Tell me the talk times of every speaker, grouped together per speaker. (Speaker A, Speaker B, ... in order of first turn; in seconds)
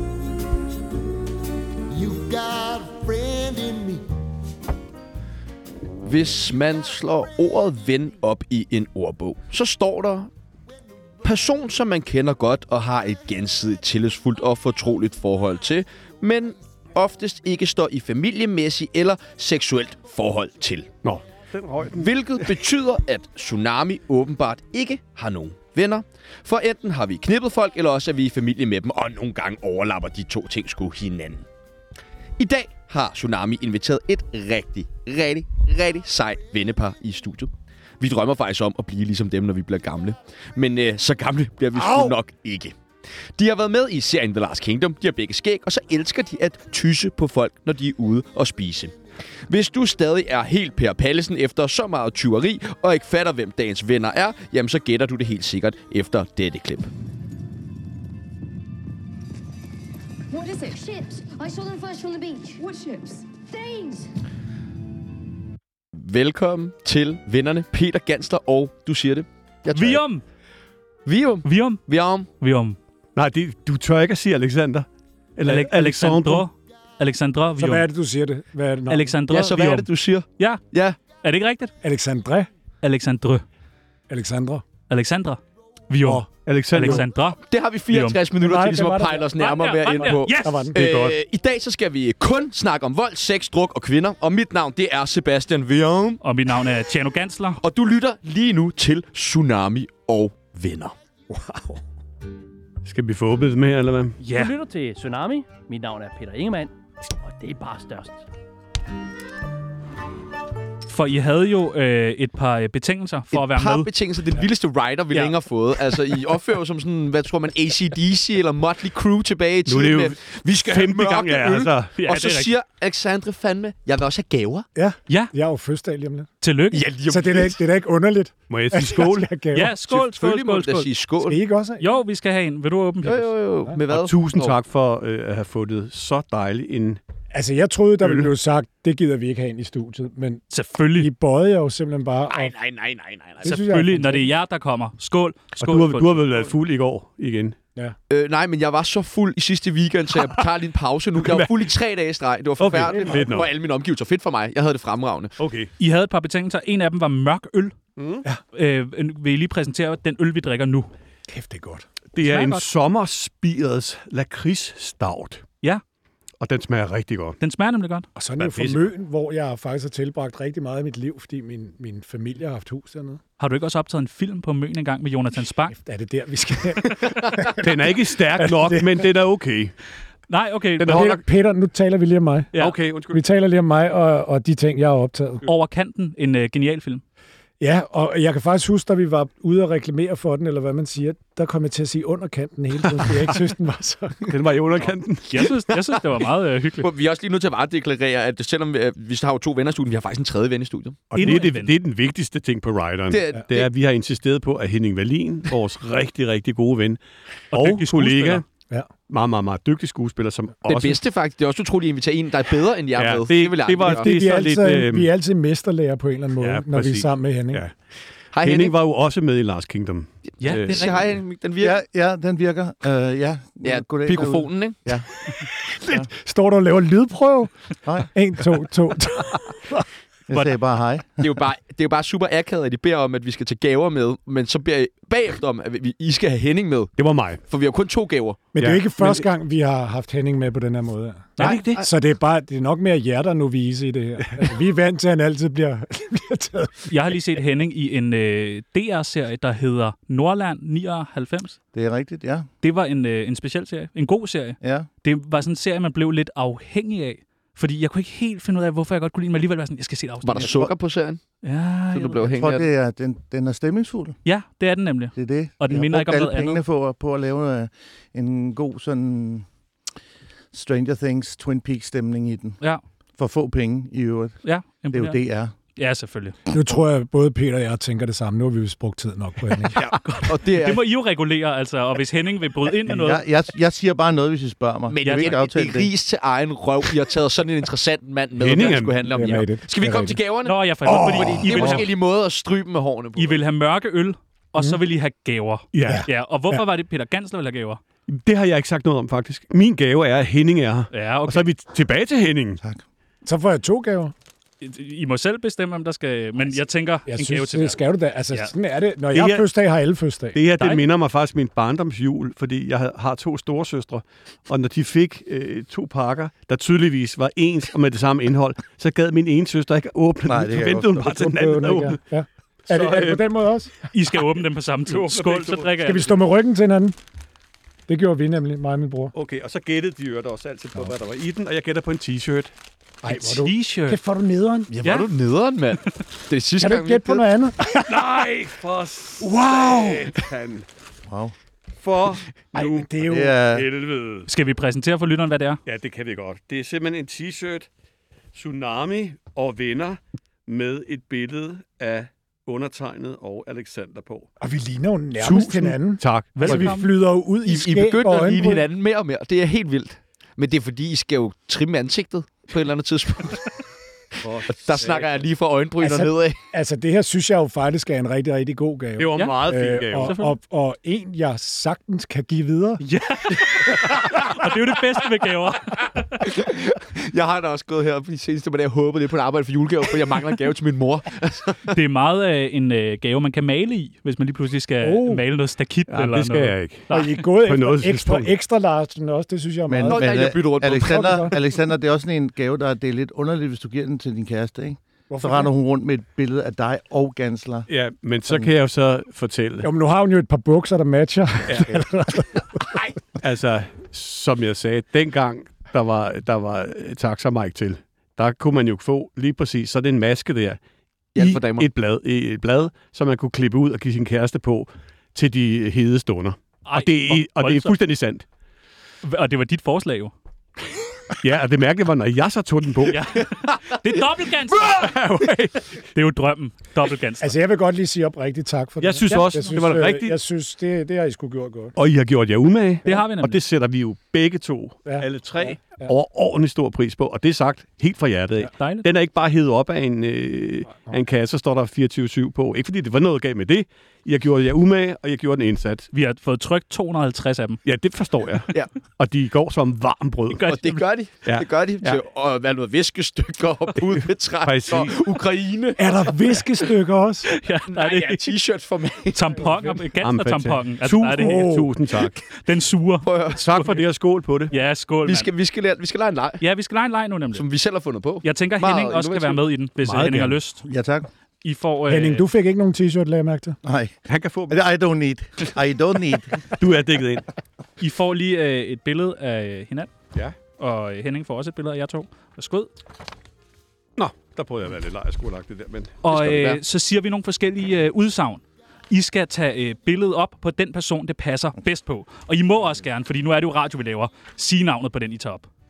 Speaker A: 1.9-4.1
Speaker B: 6.0-10.3, 11.2-20.9, 21.9-31.4, 32.4-42.8, 43.4-49.0, 49.5-56.9, 65.9-70.0, 71.1-72.3, 79.3-81.0, 87.4-96.2, 97.6-100.9, 113.3-124.7, 126.7-127.6, 129.9-131.4, 133.0-134.6, 142.3-143.6, 148.1-155.3, 196.8-201.1, 203.1-203.7, 210.7-214.1, 218.3-218.8, 220.5-221.8, 223.6-224.8, 231.2-238.4, 260.2-261.2, 261.9-262.7, 279.8-280.9, 284.9-293.4, 334.7-337.3, 357.4-363.4, 364.5-366.4, 373.7-374.3, 376.2-381.7, 389.9-391.4, 411.1-411.7, 450.4-456.2, 457.7-459.2, 463.0-463.4, 465.0-466.4, 467.3-469.4, 486.1-486.6
Speaker C: 21.0-22.6, 73.2-76.5, 86.5-87.1, 90.8-91.2, 102.8-104.2, 119.7-121.9, 128.5-129.3, 133.9-137.0, 138.0-138.3, 145.6-147.6, 151.2-151.7, 152.6-153.5, 155.4-155.7, 158.0-158.2, 162.1-165.4, 166.4-167.4, 168.4-168.9, 177.5-179.7, 180.8-181.2, 182.6-183.2, 194.3-195.5, 201.1-208.4, 209.1-211.0, 213.0-215.1, 216.4-217.8, 218.4-221.1, 237.0-237.4, 238.6-239.3, 241.4-241.8, 288.4-289.0, 295.7-296.1, 298.1-302.6, 309.1-309.5, 310.3-322.0, 322.7-323.3, 324.9-325.9, 329.1-332.5, 337.7-340.7, 341.8-344.3, 345.7-347.7, 348.3-354.3, 355.1-356.8, 364.2-365.2, 369.0-370.2, 385.9-388.3, 397.7-399.7, 401.5-401.8, 403.2-410.6, 411.2-418.3, 421.2-423.1, 424.6-425.6, 428.8-430.2, 431.8-445.9, 447.6-450.6, 451.2-452.0, 454.4-454.9, 460.0-462.2, 463.4-464.5, 474.1-474.7, 476.5-477.2, 484.0-486.0
Speaker D: 60.3-64.1
Speaker E: 69.7-70.2, 71.5-71.9, 72.4-72.8, 75.5-77.9, 78.9-81.7, 82.8-83.5, 84.9-88.2, 89.4-90.7, 96.2-97.6, 104.2-104.6, 110.9-113.9, 122.0-122.5, 126.4-126.9, 129.5-130.9, 131.8-133.3, 140.5-141.1, 143.4-146.2, 155.8-157.8, 158.5-160.9, 162.2-162.7, 167.4-168.1, 173.4-175.8, 180.3-181.1, 185.4-187.0, 195.3-196.9, 201.2-201.8, 207.5-208.4, 220.4-221.1, 241.4-241.7, 246.9-251.6, 252.6-260.6, 261.4-262.4, 264.2-266.6, 274.4-275.2, 275.8-276.4, 280.0-283.2, 285.0-285.4, 290.4-291.9, 293.2-297.8, 300.9-301.5, 304.6-307.8, 323.9-326.2, 333.1-334.0, 334.8-335.1, 344.3-345.6, 356.4-356.9, 369.2-370.4, 372.8-376.2, 381.7-387.2, 416.6-417.8, 419.0-420.1, 422.9-424.9, 425.9-427.3, 429.1-429.5, 432.9-433.4, 438.5-438.9, 445.9-447.6, 450.4-450.9, 457.3-458.4, 459.1-463.8, 464.5-465.3, 466.4-467.5, 468.2-470.6, 471.4-472.2, 477.8-479.9, 480.6-482.7, 486.0-495.5
Speaker F: 77.6-79.1, 81.8-82.5, 84.1-84.7, 88.4-89.3, 90.3-90.8, 124.8-126.3, 127.1-129.7, 131.2-131.9, 137.3-140.4, 140.9-142.5, 143.4-144.3, 152.9-153.2, 161.3-161.9, 168.2-173.2, 175.7-177.6, 178.4-179.1, 180.8-182.5, 183.1-185.5, 187.6-194.3, 213.9-217.6, 225.5-227.5, 228.1-229.9, 238.5-246.9, 276.5-279.8, 289.1-290.2, 290.9-291.4, 295.9-296.6, 303.2-304.1, 307.1-310.4, 321.0-323.7, 325.8-327.0, 327.9-329.1, 333.0-334.7, 336.6-337.8, 339.2-340.1, 342.5-343.4, 354.4-358.7, 365.8-372.8, 384.8-385.2, 386.9-390.1, 390.8-391.3, 395.1-395.5, 399.6-402.6, 427.2-431.8, 455.8-457.3, 461.2-461.7, 469.8-470.4, 471.9-473.6
Speaker G: 104.3-108.2
Speaker H: 221.6-226.1, 227.8-228.1, 230.3-231.4, 251.7-252.5, 254.6-254.9, 260.4-260.7, 262.4-264.2, 265.2-269.5, 270.5-272.6, 273.2-274.4, 274.9-275.5, 282.9-285.9, 320.3-321.0, 341.1-341.3, 343.0-343.7, 389.7-397.7, 470.6-471.1, 473.6-473.9, 474.5-476.5